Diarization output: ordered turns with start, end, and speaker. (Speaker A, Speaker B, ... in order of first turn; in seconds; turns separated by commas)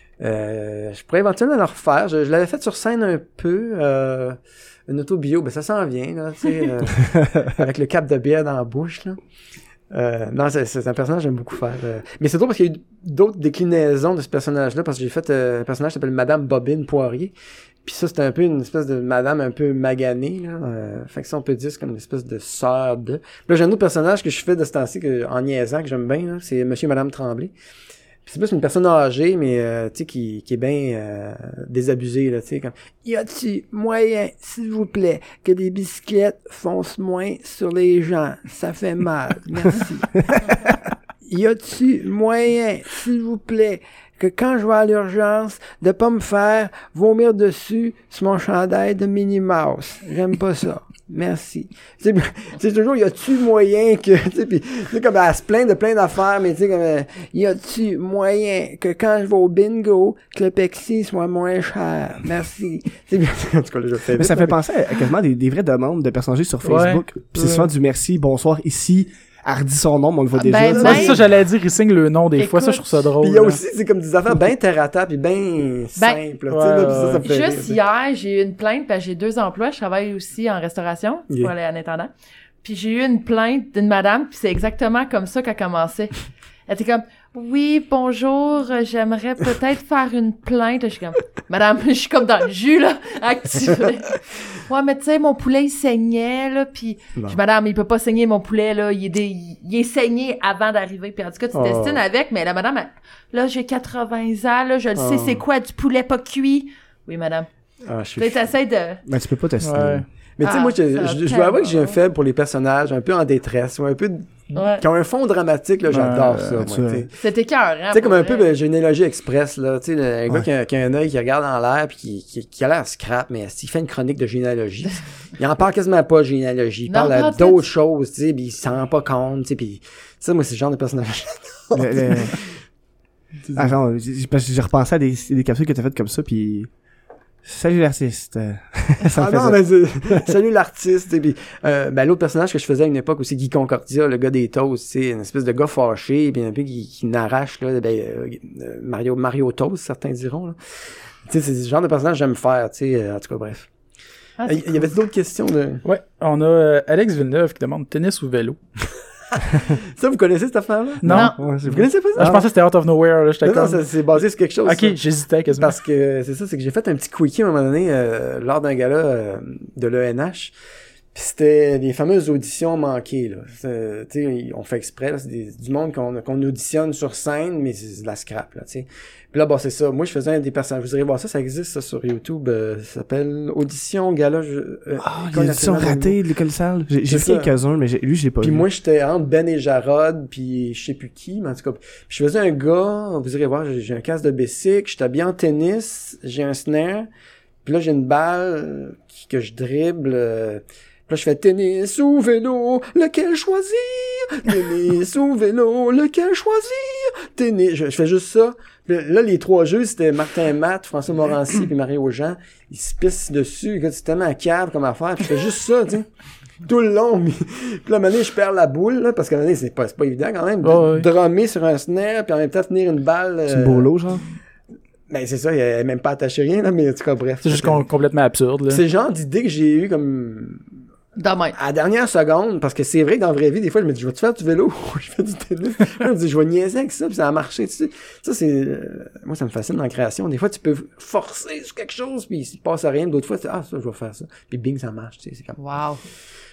Speaker A: 0.2-9.2, Speaker A: 9.9-17.3, Speaker A: 17.8-27.5, Speaker A: 28.2-64.6, Speaker B: 64.2-71.2, Speaker C: 66.6-67.6, Speaker D: 70.4-71.2, Speaker A: 70.6-71.1, Speaker C: 70.7-73.6, Speaker D: 72.4-72.9, Speaker A: 73.2-77.8, Speaker C: 76.5-77.2, Speaker D: 76.9-107.5, Speaker C: 101.5-102.0, Speaker A: 107.8-108.5, Speaker D: 108.2-109.0, Speaker B: 109.1-110.1, Speaker C: 109.6-110.0, Speaker A: 110.4-117.1, Speaker D: 110.4-112.0, Speaker D: 114.5-114.8, Speaker C: 115.9-116.5, Speaker B: 116.4-117.1, Speaker D: 117.1-118.5, Speaker A: 117.9-132.6, Speaker D: 126.9-127.6, Speaker B: 131.7-132.3, Speaker A: 133.4-133.7, Speaker B: 133.5-136.7, Speaker B: 137.4-140.3, Speaker A: 139.2-153.7, Speaker D: 154.4-154.9, Speaker A: 154.4-155.8, Speaker C: 155.8-158.6, Speaker A: 159.5-162.4, Speaker C: 161.0-161.3, Speaker B: 161.0-162.4, Speaker D: 161.1-161.4, Speaker C: 162.1-163.9, Speaker A: 163.4-165.0, Speaker C: 164.6-165.8, Speaker A: 165.5-170.5, Speaker A: 171.1-186.2, Speaker B: 185.0-188.6, Speaker A: 187.1-187.5, Speaker A: 188.4-197.1, Speaker A: 197.6-216.1, Speaker A: 216.6-223.9, Speaker C: 220.6-221.1, Speaker B: 223.5-224.2, Speaker A: 225.1-227.8, Speaker C: 227.4-228.8, Speaker A: 228.7-230.7, Speaker D: 231.2-231.6, Speaker A: 231.5-245.6, Speaker D: 245.6-246.0